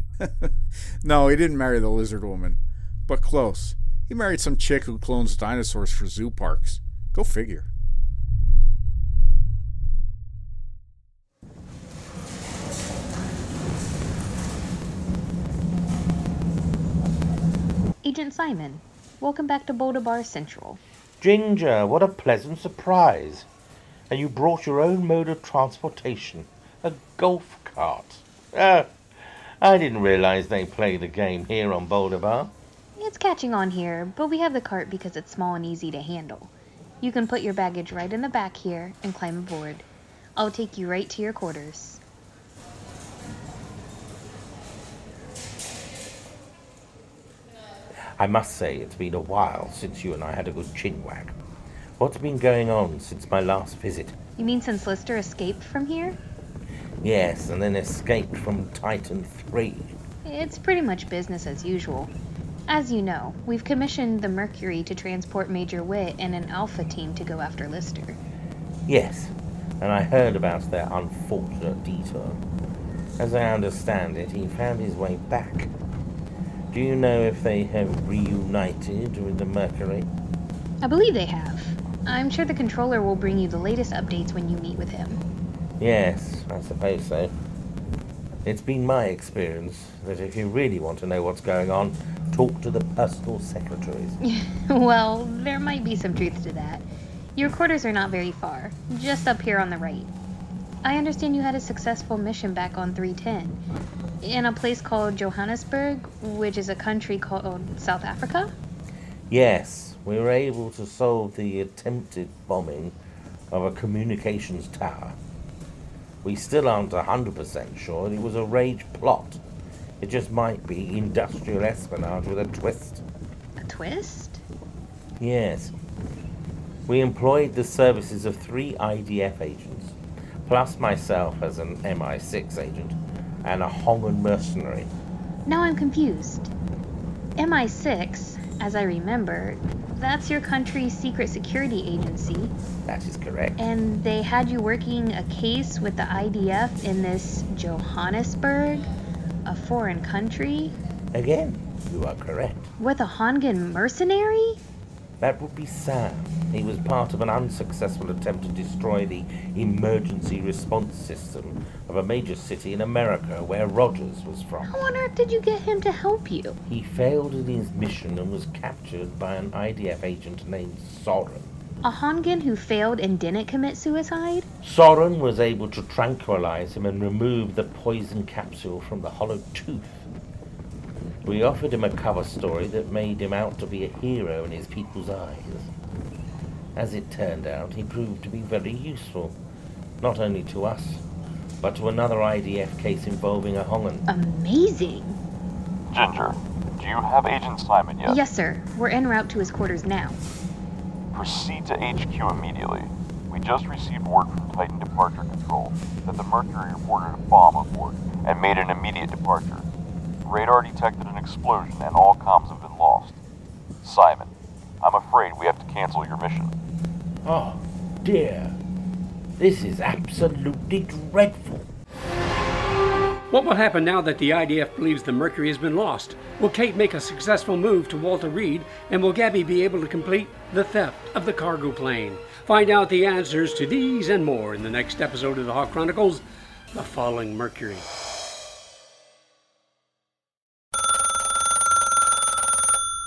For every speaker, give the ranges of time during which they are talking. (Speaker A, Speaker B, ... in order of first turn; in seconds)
Speaker A: 0.2-7.7
Speaker B: 18.0-20.8, 33.0-42.0, 54.4-56.2, 60.2-62.1, 62.7-68.2, 80.8-85.2, 94.2-100.1, 100.8-103.6, 104.2-108.5, 123.6-124.4, 135.5-136.5, 137.4-142.5, 143.6-148.9, 149.4-150.8, 152.8-154.6, 164.6-166.6, 171.8-174.5, 194.1-195.2, 198.1-200.2
Speaker C: 21.2-23.5, 24.1-32.5, 48.2-51.4, 52.0-54.2, 57.0-60.0, 68.9-72.4, 73.2-75.7, 76.7-80.1, 85.8-87.3, 88.5-94.2, 109.3-113.0, 113.5-115.2, 116.2-119.4, 120.0-123.0, 125.2-125.8, 126.9-134.9, 142.9-143.6, 151.1-152.7, 155.2-164.8, 166.7-171.5, 174.6-180.1, 181.2-185.7, 186.8-189.4, 190.0-191.0, 191.6-194.1, 217.2-218.6, 219.4-221.7
Speaker D: 195.9-198.2, 201.1-209.7, 210.2-213.2, 213.8-216.6
Speaker E: 223.3-237.9